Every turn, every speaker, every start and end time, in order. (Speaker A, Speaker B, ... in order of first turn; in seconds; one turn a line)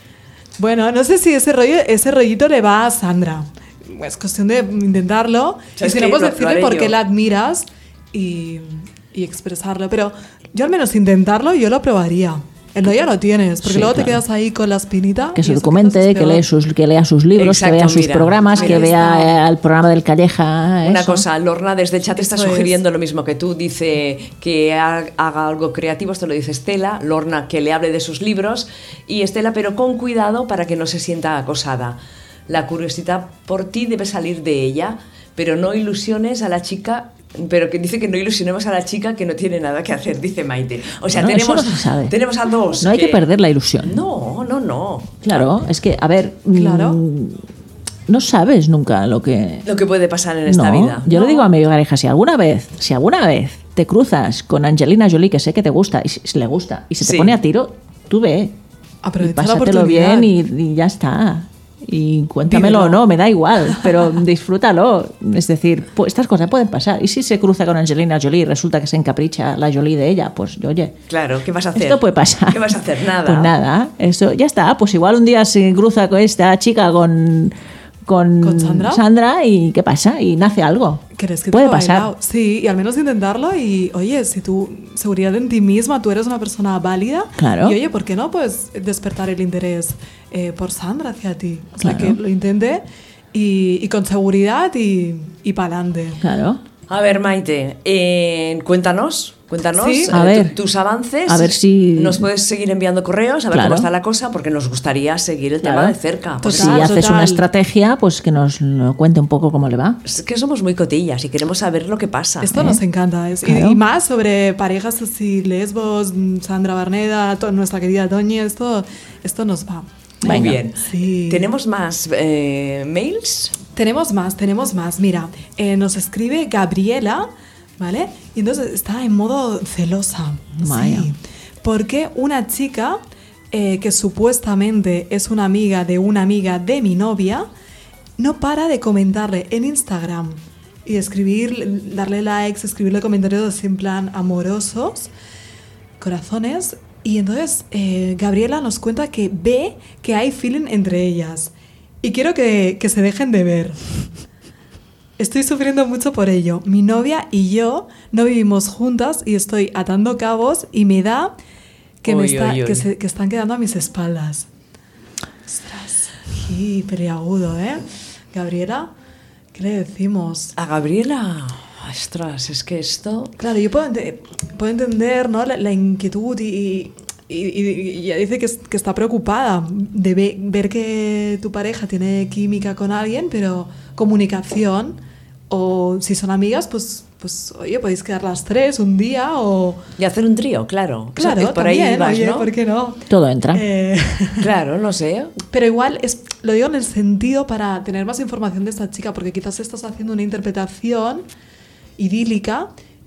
Speaker A: 0.6-16.4
Speaker B: 5.8-7.0
Speaker C: 13.6-14.2
Speaker C: 15.3-21.2
Speaker B: 17.4-18.9
Speaker A: 18.5-19.4
Speaker B: 20.8-43.2
Speaker A: 22.1-22.8
Speaker C: 41.1-42.1
Speaker C: 42.8-44.0
Speaker B: 43.8-45.5
Speaker C: 45.2-47.4
Speaker A: 46.5-47.0
Speaker C: 48.1-49.6
Speaker B: 49.6-51.2
Speaker C: 50.5-58.5
Speaker A: 51.1-51.4
Speaker B: 57.0-57.4
Speaker A: 59.0-60.3
Speaker C: 59.2-70.9
Speaker A: 62.5-63.0
Speaker B: 71.1-73.5
Speaker C: 71.7-82.1
Speaker A: 78.4-79.0
Speaker A: 81.1-96.2
Speaker C: 87.4-87.8
Speaker C: 91.8-92.2
Speaker C: 96.2-96.6
Speaker B: 96.9-106.9
Speaker A: 99.7-100.1
Speaker C: 100.1-100.6
Speaker C: 101.3-102.3
Speaker C: 103.5-103.9
Speaker C: 105.6-110.0
Speaker A: 106.4-107.4
Speaker B: 110.0-112.6
Speaker A: 112.4-121.5
Speaker C: 112.5-112.8
Speaker C: 113.4-113.8
Speaker C: 120.2-120.6
Speaker B: 120.2-123.5
Speaker A: 123.7-133.0
Speaker C: 130.6-131.1
Speaker A: 133.5-137.5
Speaker A: 138.2-145.1
Speaker A: 146.0-153.9
Speaker A: 155.2-161.3
Speaker A: 162.0-164.5
Speaker B: 162.0-162.9
Speaker A: 165.5-168.9
Speaker A: 169.5-170.5
Speaker B: 170.6-173.3
Speaker A: 173.4-185.0
Speaker A: 185.5-189.8
Speaker B: 190.0-192.5
Speaker A: 191.2-194.5
Speaker C: 193.1-193.6
Speaker B: 194.4-195.3
Speaker A: 195.5-201.2
Speaker A: 202.0-202.7